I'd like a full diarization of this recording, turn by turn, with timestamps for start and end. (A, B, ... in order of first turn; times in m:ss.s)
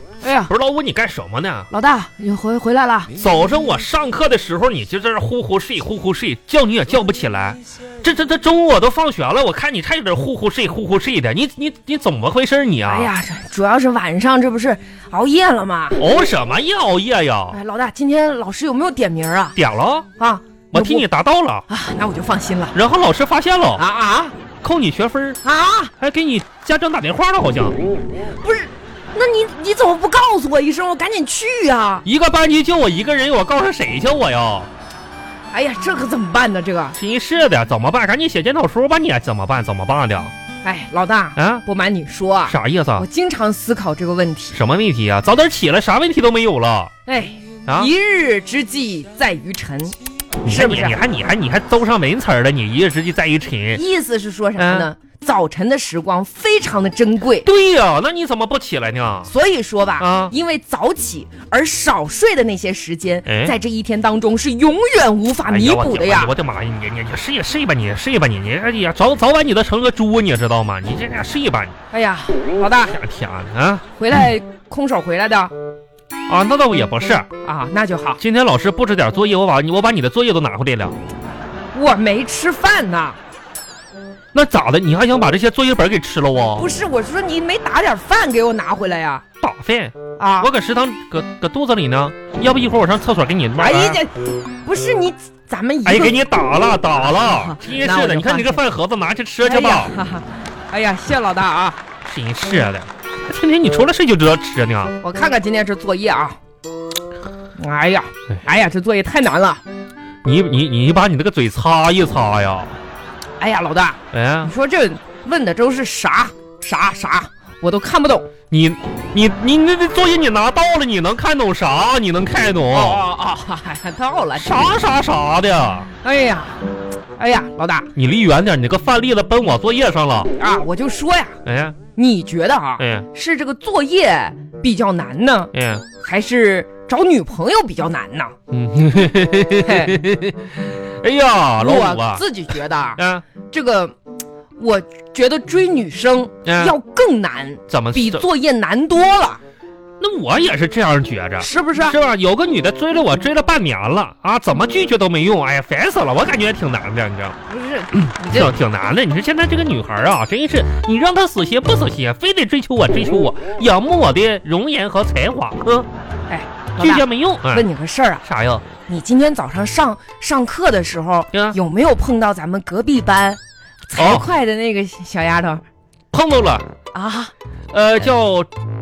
0:00.2-0:00.5 A
0:00.5-0:01.7 B
0:01.7-0:03.1 A
0:03.2-0:13.1 B
0:12.9-0:16.0 A
0:16.0-0:17.6 B
0:17.5-0:19.6 A
0:19.6-0:20.1 B
0:20.2-0:21.0 A
0:20.7-0:21.7 B
0:21.7-0:22.8 A
0:22.7-0:23.8 B
0:23.8-0:24.3 A
0:24.6-0:25.4 B
0:25.4-0:25.9 A
0:26.0-0:27.8 B
0:28.4-0:32.0 A
0:32.0-0:34.7 B
0:35.5-0:37.0 A
0:37.0-0:40.3 B
0:40.6-0:44.6 A
0:41.4-0:41.6 B
0:42.5-0:43.0 B
0:44.5-0:46.9 B
0:47.0-0:51.0 A
0:47.6-0:47.9 B
0:50.4-0:53.8 B
0:53.7-0:57.5 A
0:54.6-0:54.9 B
0:57.4-0:59.3 B
0:59.3-1:06.3 A
1:00.0-1:00.3 B
1:03.3-1:03.6 B
1:05.5-1:11.8 B
1:11.9-1:13.0 A
1:12.9-1:13.8 B
1:14.0-1:15.5 A
1:16.3-1:17.3 B
1:17.4-1:18.2 A
1:18.2-1:21.0 B
1:21.7-1:23.2 A
1:24.3-1:26.7 B
1:26.6-1:29.2 A
1:29.4-1:34.0 B
1:30.2-1:30.5 A
1:33.5-1:36.2 A
1:35.8-1:39.9 B
1:36.9-1:38.6 A
1:39.4-1:41.8 A
1:42.0-1:45.0 B
1:45.0-1:46.4 A
1:47.6-1:49.6 A
1:50.2-1:52.8 B
1:53.4-1:58.3 A
1:54.1-1:54.5 B
1:58.5-2:03.0 B
2:02.7-2:04.6 A
2:04.3-2:05.9 B
2:06.0-2:06.6 A
2:07.2-2:07.9 A
2:08.0-2:10.3 B
2:10.4-2:11.4 A
2:11.4-2:11.8 B
2:12.0-2:18.3 A
2:12.8-2:13.1 B
2:15.5-2:15.8 B
2:18.5-2:22.2 B
2:19.6-2:20.0 A
2:21.6-2:23.9 A
2:23.0-2:23.2 B
2:24.6-2:29.4 A
2:26.4-2:26.8 B
2:27.7-2:28.2 B
2:30.0-2:37.4 B
2:31.4-2:32.0 A
2:37.5-2:38.5 A
2:38.1-2:45.9 B
2:46.3-2:48.2 A
2:46.8-2:47.7 B
2:48.2-2:48.7 B
2:48.8-2:53.4 A
2:53.9-2:55.6 A
2:54.0-2:54.2 B
2:56.1-2:56.7 B
2:56.9-2:57.3 A
2:57.7-2:58.5 B